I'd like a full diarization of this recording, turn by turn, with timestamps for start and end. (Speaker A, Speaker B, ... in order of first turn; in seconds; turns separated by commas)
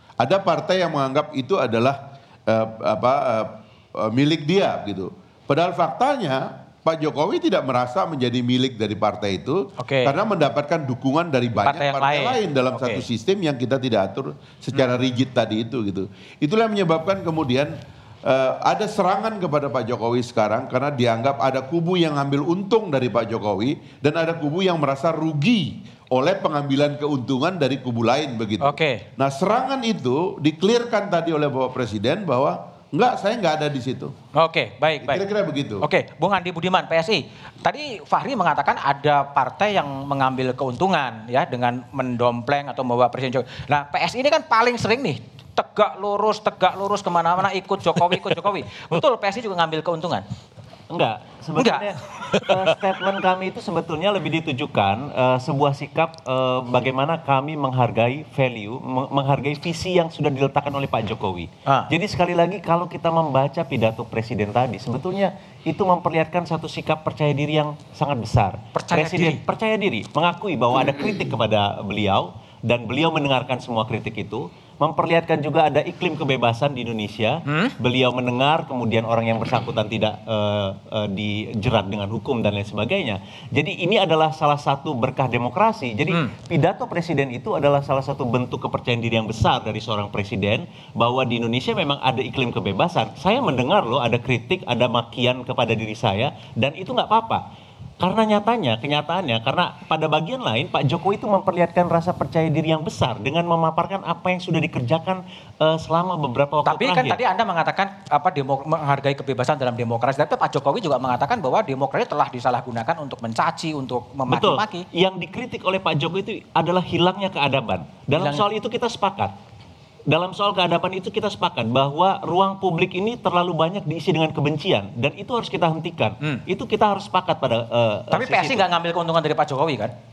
Speaker A: 0.2-17.7, Speaker B: 9.8-10.1, Speaker B: 11.6-13.0, Speaker A: 18.2-34.1, Speaker B: 28.6-29.0, Speaker B: 34.3-35.2, Speaker A: 35.0-35.8, Speaker B: 35.8-50.2, Speaker C: 50.9-97.4, Speaker B: 51.6-51.9, Speaker B: 68.7-69.4, Speaker B: 77.5-77.7, Speaker C: 98.0-107.2, Speaker B: 106.6-114.8, Speaker C: 114.3-119.3, Speaker B: 118.2-118.4, Speaker C: 120.1-128.6, Speaker B: 128.1-129.9